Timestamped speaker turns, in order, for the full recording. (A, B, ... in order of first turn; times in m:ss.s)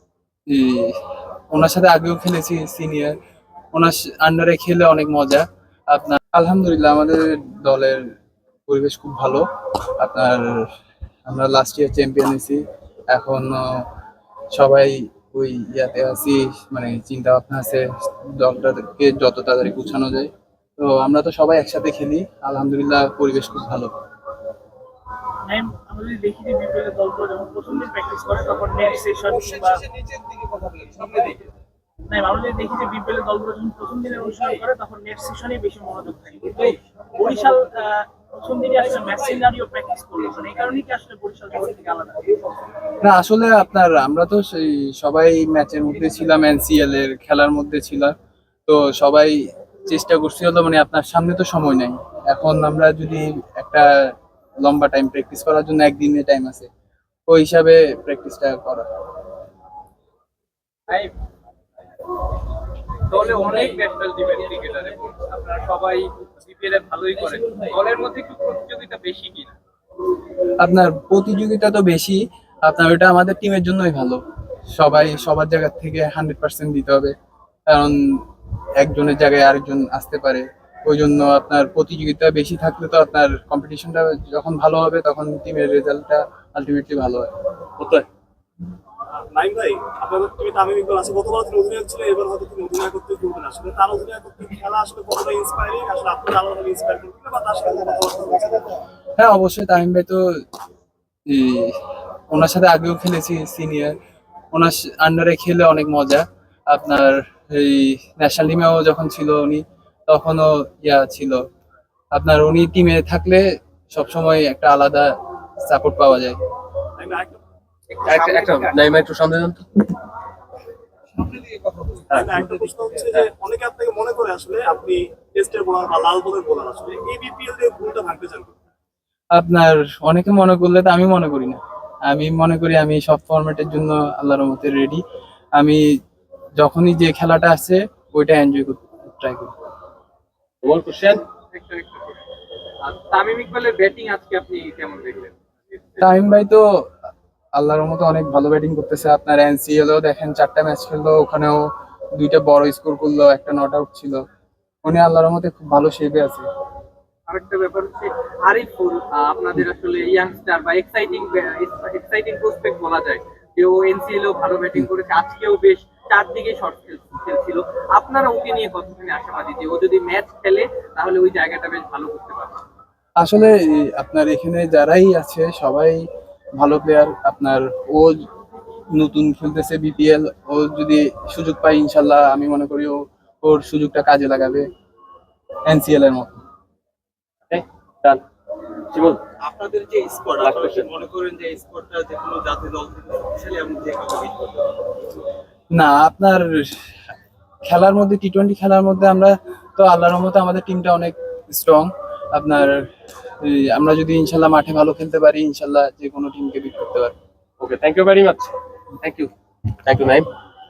0:00.5-0:01.0 A
0:01.5-0:03.1 A
0:03.7-0:08.1 A
0:08.7-0:09.4 A
0:10.0-0:10.6 A
0:11.3-0:13.9 A
0:14.5-0:23.9 A
0:25.5-0:29.9 B
0:30.9-0:31.3 B
0:32.1-0:42.3 B
0:43.0-0:48.1 A
0:48.7-0:54.1 A
0:54.6-0:56.7 A
0:57.3-0:58.9 A
1:03.1-1:09.5 C
1:10.6-1:17.1 A
1:17.7-1:18.2 A
1:18.8-1:27.3 A
1:27.8-1:28.0 D
1:29.2-1:38.8 E
1:39.2-1:40.2 A
1:41.3-1:41.8 A
1:42.3-1:43.9 A
1:44.5-1:51.4 A
1:52.1-1:55.1 A
1:55.6-1:56.4 A
1:57.0-1:57.4 E
1:57.9-1:58.8 C
1:58.0-1:59.6 D
2:02.0-2:02.4 D
2:02.1-2:08.5 E
2:09.3-2:15.0 A
2:16.6-2:19.5 A
2:20.6-2:21.2 D
2:21.4-2:22.2 C
2:22.8-2:26.0 C
2:26.0-2:26.6 A
2:27.6-2:34.2 A
2:34.8-2:36.5 A
2:37.3-2:52.6 C
2:53.2-2:56.0 A
2:56.6-2:58.2 A
2:58.9-3:04.6 A
3:05.7-3:06.4 A
3:07.5-3:08.2 D
3:08.9-3:09.2 D
3:09.4-3:14.7 C
3:10.4-3:10.9 D
3:15.7-3:16.8 A
3:17.7-3:22.9 A
3:23.4-3:27.1 A
3:27.6-3:29.3 D
3:29.8-3:30.3 D